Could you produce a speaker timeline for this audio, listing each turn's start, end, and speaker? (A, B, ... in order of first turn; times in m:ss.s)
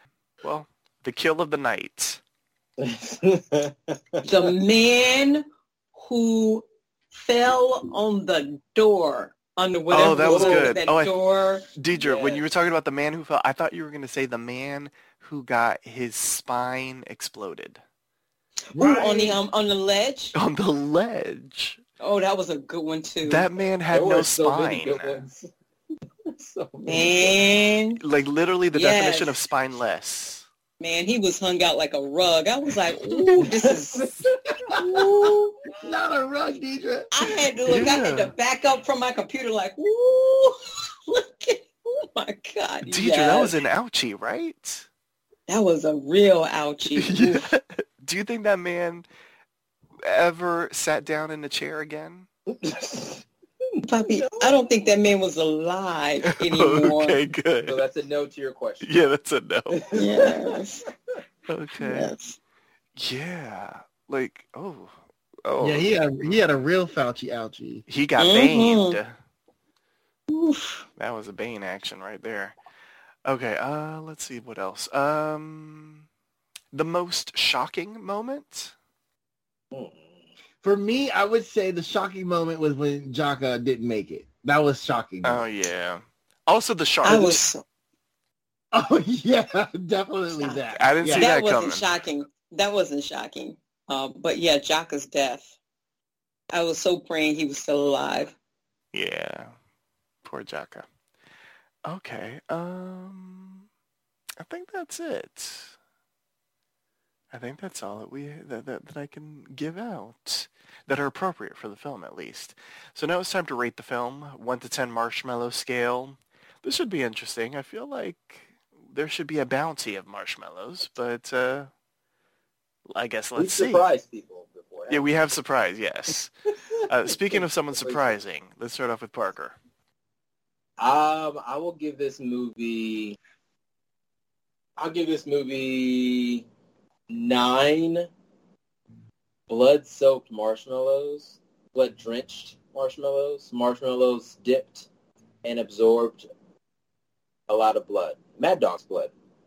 0:00.4-0:02.2 A
0:02.8-0:04.5 B
0:04.2-0:11.7 C
0:09.9-0:11.1 A
0:10.2-0:10.7 B
0:11.8-0:17.8 A
0:12.0-0:12.4 B
0:18.7-0:19.4 D
0:18.8-0:20.3 C
0:20.3-0:21.8 A
0:22.0-0:23.5 C
0:23.2-0:25.3 A
0:23.9-0:25.5 B
0:26.3-0:27.4 B
0:26.8-0:28.0 C
0:28.0-0:30.4 A
0:28.7-0:29.3 C
0:30.8-0:34.1 C
0:33.4-0:35.4 B
0:34.8-0:35.3 D
0:35.8-0:37.2 D
0:37.1-0:43.5 C
0:37.6-0:38.3 A
0:42.8-0:44.8 A
0:45.5-0:47.4 C
0:46.9-0:49.0 A
0:50.0-0:52.3 A
0:52.5-0:53.2 B
0:53.8-0:57.2 C
0:54.0-0:54.7 B
0:56.2-0:57.8 A
0:57.7-0:58.9 B
0:58.8-0:59.9 A
0:59.7-1:00.5 B
0:59.9-1:00.8 C
1:01.5-1:02.1 A
1:01.8-1:02.4 C
1:03.0-1:06.4 A
1:05.6-1:07.8 D
1:07.9-1:09.2 A
1:08.2-1:09.0 C
1:10.3-1:10.8 C
1:11.0-1:12.6 A
1:13.2-1:16.0 A
1:16.7-1:18.7 A
1:19.7-1:20.0 B
1:20.6-1:25.4 D
1:25.2-1:27.4 A
1:27.0-1:27.6 C
1:28.7-1:31.3 D
1:30.4-1:35.5 C
1:30.8-1:31.9 A
1:36.5-1:38.3 C
1:38.9-1:39.5 A
1:40.2-1:40.9 A
1:41.8-1:43.6 A
1:44.4-1:45.8 A
1:47.3-2:01.7 A
2:02.9-2:03.9 A
2:03.4-2:05.1 B
2:04.9-2:06.3 A
2:06.9-2:09.5 A
2:07.1-2:08.2 B
2:10.8-2:13.2 B
2:14.8-2:16.4 B
2:17.1-2:18.1 B
2:19.5-2:24.9 B
2:25.4-2:26.3 B
2:27.5-2:29.1 B